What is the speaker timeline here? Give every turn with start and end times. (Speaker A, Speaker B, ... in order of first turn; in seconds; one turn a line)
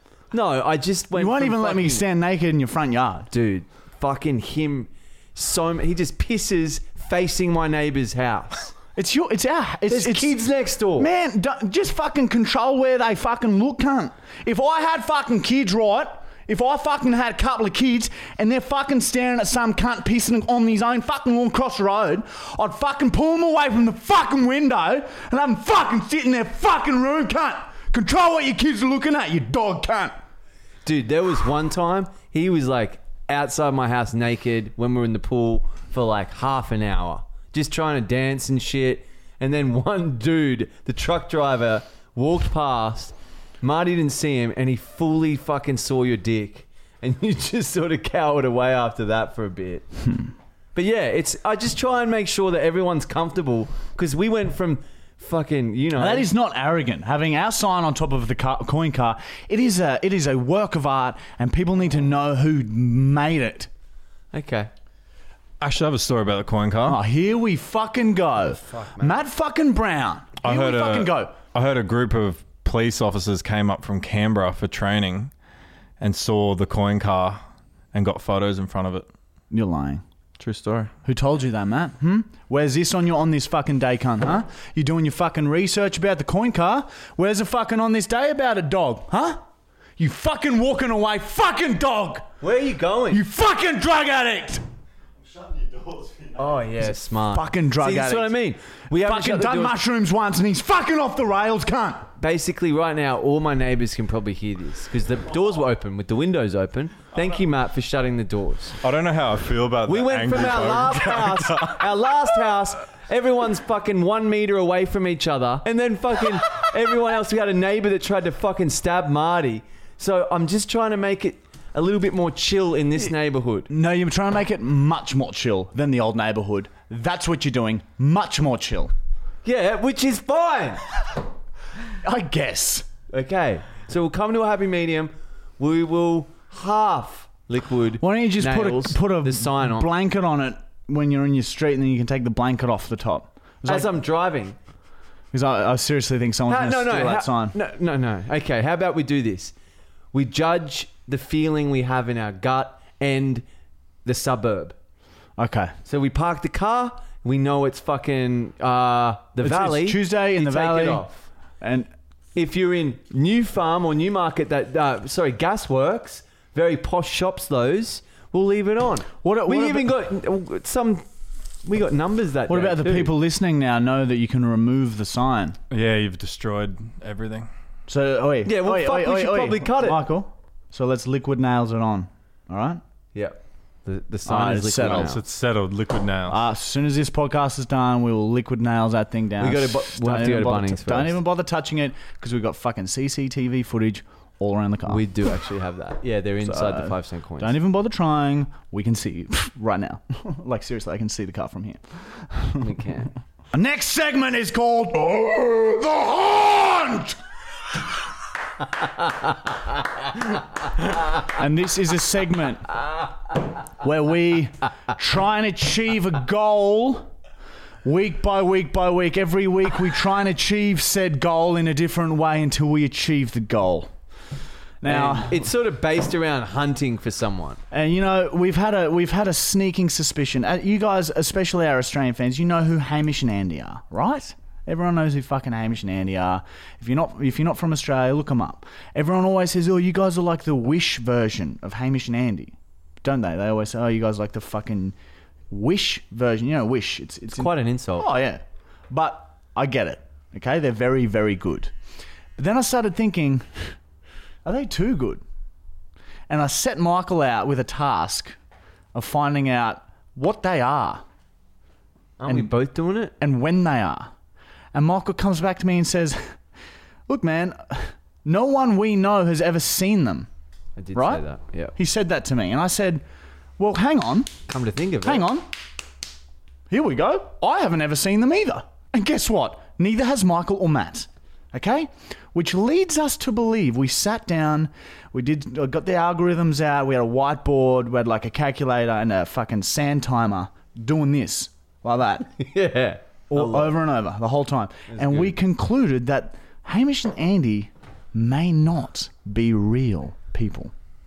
Speaker A: 0.3-2.0
Speaker B: 1.1-3.3
Speaker A: 3.3-8.7
Speaker B: 8.9-10.4
Speaker A: 9.9-11.1
Speaker B: 10.9-30.1
Speaker A: 30.8-49.9
Speaker A: 50.7-56.3
Speaker B: 56.0-63.7
Speaker A: 64.3-64.7
Speaker C: 65.6-67.0
Speaker B: 66.8-71.3
Speaker A: 68.6-69.1
Speaker C: 70.4-75.3
Speaker C: 76.0-77.4
Speaker C: 77.9-79.1
Speaker B: 79.5-80.0
Speaker C: 80.4-80.9
Speaker B: 81.0-89.4
Speaker B: 90.0-92.3
Speaker A: 92.4-93.2
Speaker B: 93.1-94.6
Speaker A: 96.3-99.8
Speaker B: 97.3-98.4
Speaker B: 98.9-102.0
Speaker A: 102.2-108.8
Speaker C: 108.8-111.9
Speaker A: 109.9-123.7
Speaker B: 123.7-128.9
Speaker A: 129.4-130.8
Speaker B: 132.0-132.9
Speaker A: 133.1-139.9
Speaker B: 138.0-143.9
Speaker A: 143.7-144.6
Speaker B: 145.3-147.5
Speaker A: 146.5-149.5
Speaker A: 150.1-153.4
Speaker A: 154.0-154.8
Speaker B: 155.4-155.7
Speaker A: 155.8-161.2
Speaker B: 159.4-161.0
Speaker B: 161.6-161.9
Speaker A: 162.3-171.1
Speaker B: 169.2-169.9
Speaker A: 171.6-173.1
Speaker B: 172.5-175.6
Speaker C: 175.7-177.5
Speaker B: 177.9-182.8
Speaker A: 178.4-180.0
Speaker A: 183.1-185.2
Speaker B: 184.2-185.2
Speaker C: 184.9-186.4
Speaker B: 186.3-195.1
Speaker A: 189.4-191.2
Speaker A: 194.8-197.6
Speaker B: 196.4-202.7
Speaker A: 202.6-203.1
Speaker B: 203.5-207.2
Speaker B: 211.2-212.7
Speaker B: 213.8-217.1
Speaker B: 217.8-223.9
Speaker B: 224.8-225.5
Speaker A: 224.8-227.6
Speaker B: 227.7-244.9
Speaker B: 245.5-251.7
Speaker A: 247.3-248.1
Speaker B: 252.4-253.7
Speaker B: 254.4-255.2
Speaker B: 256.3-258.4
Speaker B: 258.9-261.0
Speaker A: 262.2-263.1
Speaker B: 262.2-262.5
Speaker B: 263.2-264.1
Speaker B: 264.7-266.3
Speaker B: 267.1-270.3
Speaker A: 270.8-271.7
Speaker B: 270.9-271.2
Speaker B: 271.8-273.0
Speaker B: 273.6-274.3
Speaker A: 274.5-275.3
Speaker B: 275.0-275.5
Speaker B: 276.7-292.3
Speaker A: 292.4-293.8
Speaker B: 293.3-300.7
Speaker A: 294.9-295.4